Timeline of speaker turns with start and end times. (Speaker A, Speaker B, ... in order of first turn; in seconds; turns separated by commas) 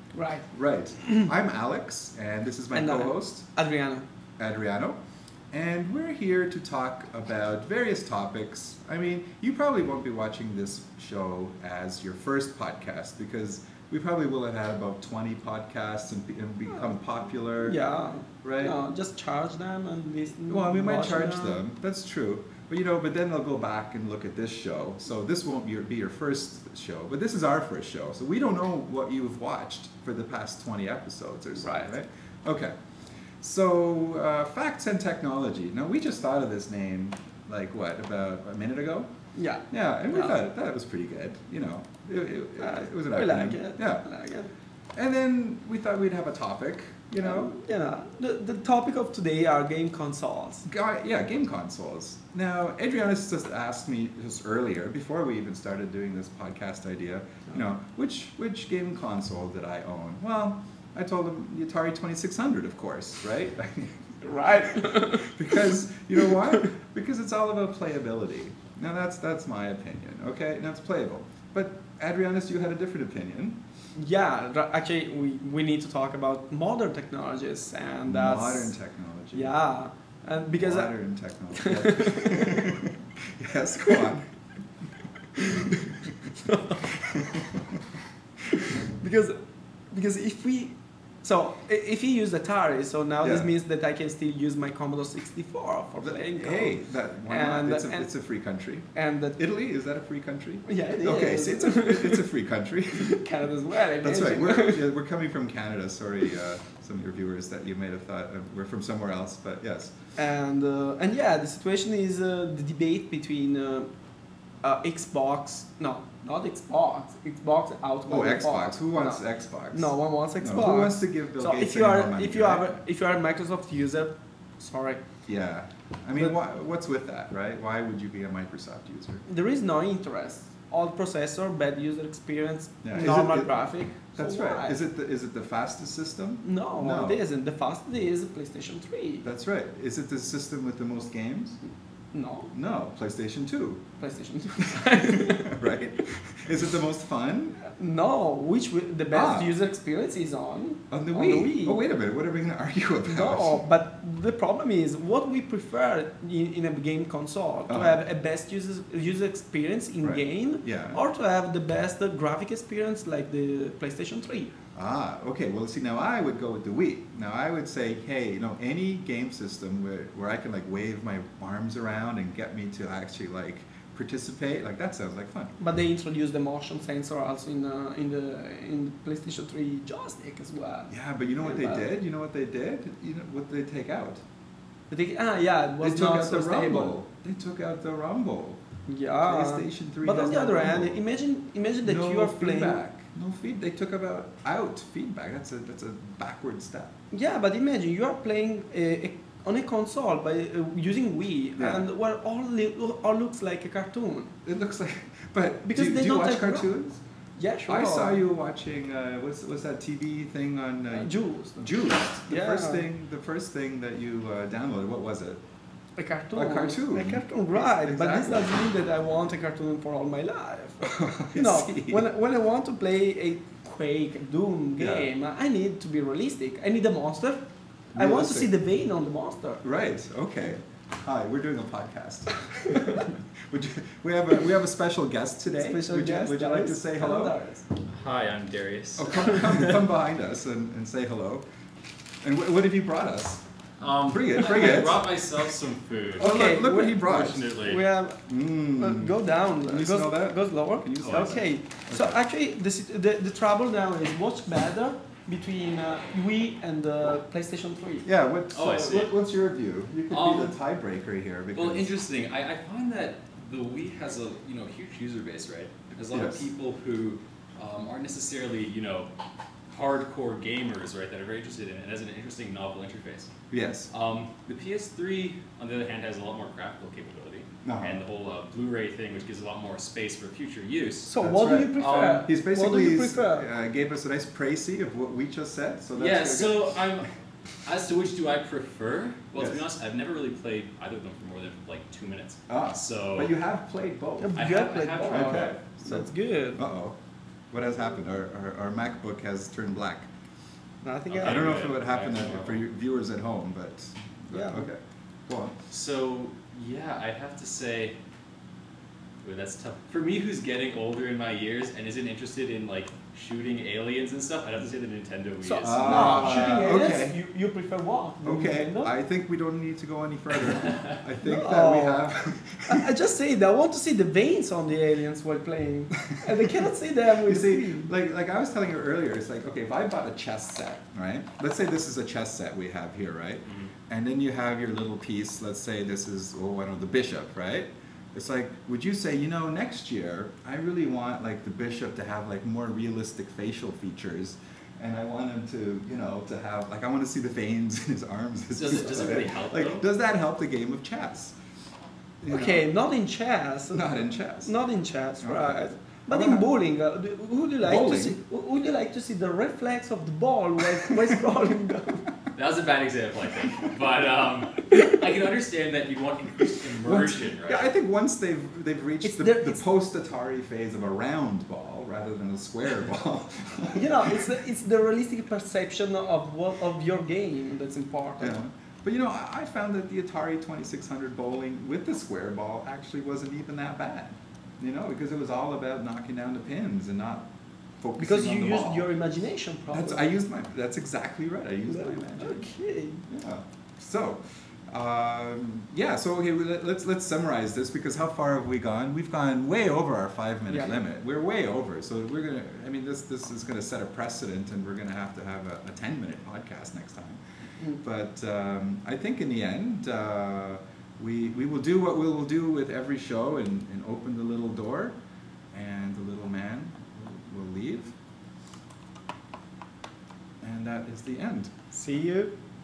Speaker A: 0.1-0.4, Speaker B: 0.5-3.4, Speaker A: 2.7-4.1, Speaker B: 4.4-5.0, Speaker B: 5.5-17.8, Speaker A: 17.6-21.6, Speaker B: 18.4-18.8, Speaker B: 20.5-32.7, Speaker A: 31.6-31.9, Speaker B: 33.4-39.1, Speaker A: 39.3-40.4, Speaker B: 39.7-44.0, Speaker A: 42.6-44.5, Speaker B: 45.0-47.5, Speaker A: 47.2-50.6, Speaker B: 50.6-73.6, Speaker A: 64.2-65.7, Speaker A: 74.0-78.7, Speaker B: 78.0-79.5, Speaker A: 79.3-80.9, Speaker B: 80.6-84.3, Speaker A: 81.5-82.8, Speaker A: 85.4-86.8, Speaker B: 86.9-87.7, Speaker A: 88.6-98.1, Speaker B: 93.2-93.5, Speaker B: 96.0-103.2, Speaker A: 98.9-99.4, Speaker A: 100.7-102.3, Speaker A: 102.9-104.9, Speaker B: 104.0-109.9, Speaker A: 110.2-113.9, Speaker A: 114.6-125.0, Speaker B: 118.1-122.8, Speaker B: 125.3-129.2, Speaker A: 129.3-134.8, Speaker B: 132.8-137.2, Speaker A: 136.4-139.2, Speaker B: 139.2-141.6, Speaker A: 142.1-142.5, Speaker B: 142.5-143.8, Speaker A: 144.0-145.6, Speaker B: 144.7-147.6, Speaker A: 147.7-151.8, Speaker B: 149.1-149.6, Speaker B: 150.9-153.6, Speaker A: 153.1-164.5, Speaker B: 157.7-158.0, Speaker B: 160.0-161.0, Speaker B: 164.7-175.5, Speaker A: 175.6-181.9, Speaker B: 180.9-184.2, Speaker A: 184.9-186.9, Speaker B: 185.8-188.6, Speaker A: 188.9-192.8, Speaker B: 189.2-191.0, Speaker B: 191.8-196.9, Speaker A: 197.1-204.3, Speaker B: 201.6-201.9, Speaker B: 204.4-207.0, Speaker A: 205.6-206.7, Speaker A: 207.4-208.2, Speaker B: 207.7-215.4, Speaker A: 210.9-211.6, Speaker A: 212.3-212.8, Speaker A: 216.0-227.4, Speaker B: 216.3-218.6, Speaker B: 220.8-222.1, Speaker B: 224.8-225.1, Speaker B: 227.9-228.5, Speaker A: 227.9-229.6, Speaker B: 229.6-237.3, Speaker A: 235.6-237.7, Speaker C: 237.9-239.9, Speaker B: 238.9-241.4, Speaker B: 242.2-243.4, Speaker C: 243.8-246.4, Speaker B: 244.1-245.1, Speaker B: 246.2-247.5, Speaker A: 246.2-258.1, Speaker C: 246.9-247.8, Speaker B: 248.2-252.2, Speaker C: 251.0-251.3, Speaker B: 258.0-261.9, Speaker C: 258.5-259.1, Speaker C: 260.1-260.6, Speaker C: 261.5-269.1, Speaker B: 266.1-266.5, Speaker C: 269.7-273.3, Speaker B: 273.5-273.9, Speaker C: 273.9-281.1, Speaker B: 277.6-278.0, Speaker A: 281.1-283.5, Speaker B: 281.2-286.7, Speaker C: 281.8-282.3, Speaker C: 286.0-287.1, Speaker C: 287.6-293.4, Speaker B: 289.4-289.6, Speaker B: 292.5-294.5, Speaker A: 294.2-296.6, Speaker C: 294.3-295.6, Speaker B: 295.0-296.9, Speaker B: 297.5-300.1, Speaker A: 300.8-301.5, Speaker C: 301.1-302.6, Speaker B: 301.2-305.5, Speaker A: 304.3-304.7, Speaker C: 305.7-307.9, Speaker C: 309.2-316.6, Speaker A: 315.4-318.9, Speaker B: 315.6-317.2, Speaker B: 318.2-322.9, Speaker A: 321.2-322.1, Speaker A: 322.7-327.9, Speaker B: 327.2-351.3, Speaker C: 348.5-349.9, Speaker B: 352.2-352.7, Speaker A: 352.3-353.9, Speaker B: 353.7-354.5, Speaker A: 354.4-362.1, Speaker B: 355.2-356.5, Speaker B: 357.6-358.2, Speaker C: 362.3-367.7, Speaker B: 366.8-374.3, Speaker A: 369.0-369.6, Speaker A: 373.7-378.4, Speaker B: 378.2-387.3, Speaker B: 387.8-388.9, Speaker A: 388.0-390.1, Speaker B: 389.7-392.5, Speaker A: 391.7-393.0, Speaker B: 393.1-407.2, Speaker B: 407.8-414.9, Speaker B: 415.5-417.9, Speaker B: 420.4-421.5, Speaker A: 421.7-422.3